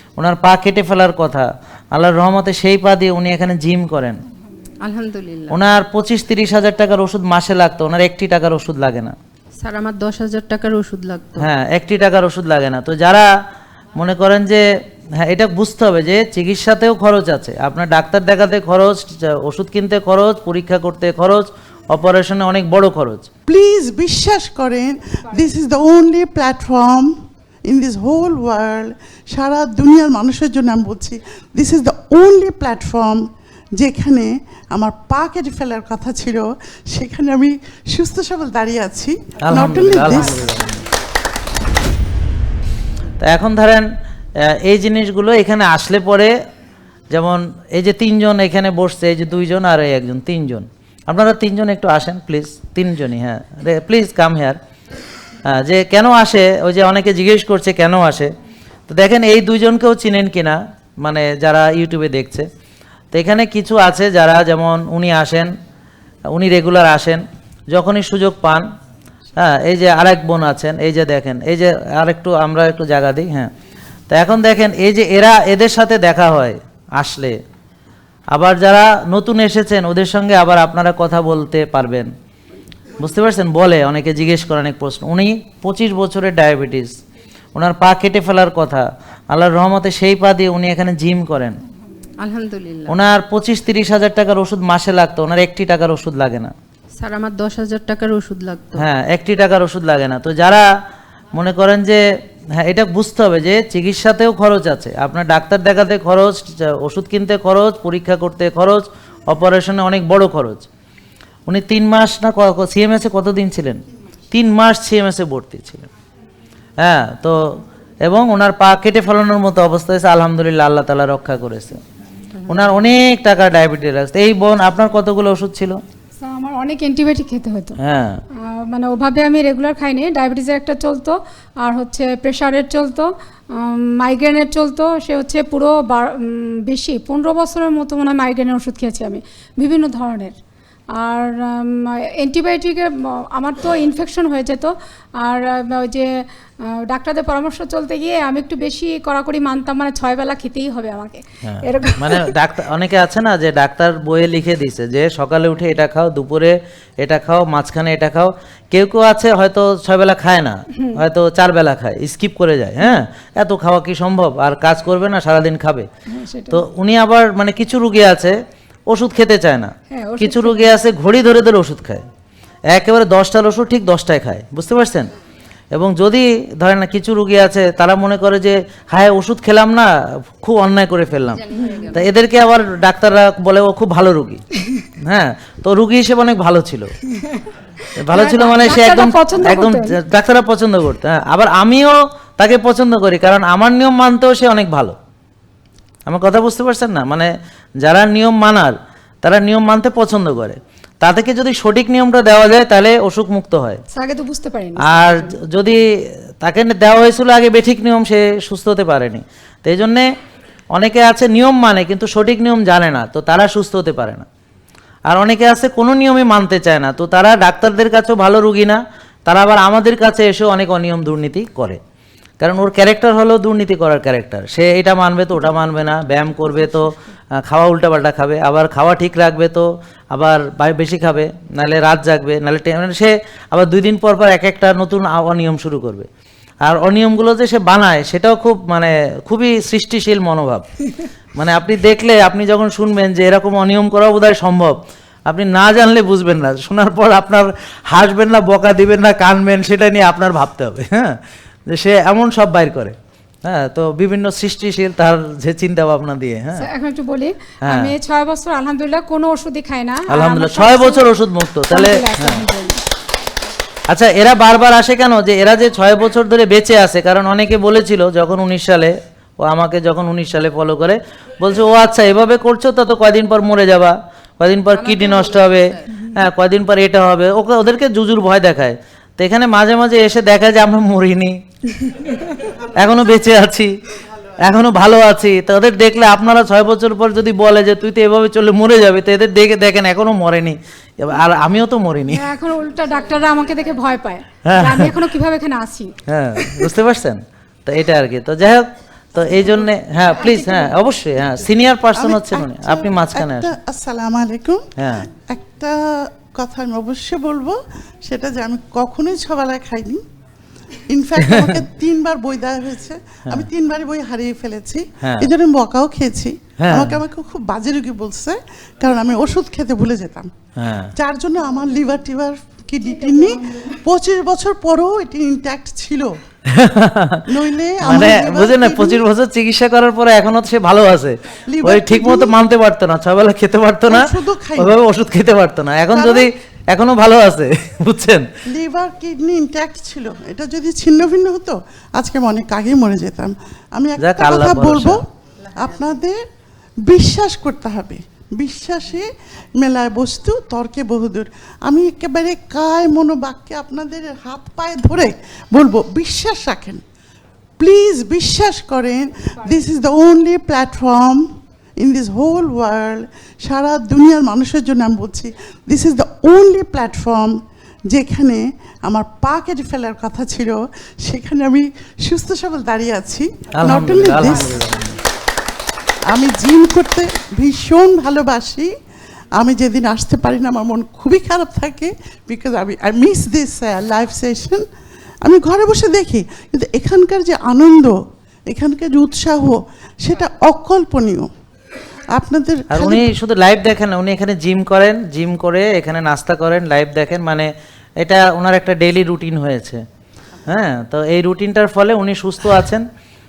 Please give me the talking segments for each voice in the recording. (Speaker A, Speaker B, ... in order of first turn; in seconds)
Speaker A: 0.2-4.2, 5.5-9.1, 11.4-13.3, 13.9-14.6, 15.2-23.3, 39.4-40.8, 43.2-43.9, 44.4-46.3, 47.1-54.6, 55.5-58.3, 58.9-62.5, 63.1-65.5, 66.3-68.7, 69.4-73.5, 74.1-77.3, 78.3-82.1, 83.0-87.0, 87.5-91.6, 92.9-96.5, 98.8-100.7, 101.3-102.0, 102.6-110.7, 111.5-115.9, 116.8-117.4, 118.0-121.8, 122.5-125.8, 127.8-128.2, 151.4-165.9, 166.5-168.3, 168.9-172.0, 172.7-175.1, 175.7-184.4, 185.0-186.9, 188.0-194.9, 196.1-197.3, 197.8-203.8, 204.8-205.8, 206.4-210.1, 210.7-214.2, 215.1-221.8, 222.4-236.1, 236.6-240.7, 241.3-244.8, 245.3-251.2, 251.7-256.7, 257.6-257.9, 260.1-262.4, 263.9-281.4, 282.5-283.7, 284.4-292.3, 294.4-294.9, 296.1-303.5, 304.8-305.1, 311.3-311.5, 315.0-315.3, 316.6-317.0, 320.6-320.9, 326.5-327.3, 327.8-338.2, 344.0-345.0, 373.5-374.9, 392.7-397.5, 398.0-399.8, 400.5-402.8
Speaker B: 4.8-5.6, 9.6-11.5, 92.2-93.0, 97.0-98.8, 181.5-182.0, 274.7-276.0
Speaker C: 23.5-27.1, 27.7-33.2, 33.8-40.5, 301.9-304.6, 305.2-310.0, 310.9-320.3, 320.9-326.1, 327.3-329.1, 331.5-332.3, 333.9-334.8, 335.9-336.3, 338.5-346.2, 346.9-356.8, 357.6-361.3, 361.8-367.4, 367.9-374.6, 376.1-378.7, 379.4-384.6, 385.2-387.9, 388.5-391.3, 392.1-393.1
Speaker D: 126.2-127.8, 128.4-140.3, 140.9-152.3, 166.1-166.6, 169.9-170.8, 181.6-181.9, 188.1-190.0, 203.9-205.3, 256.6-261.1, 261.7-262.8, 292.1-296.7, 300.1-300.8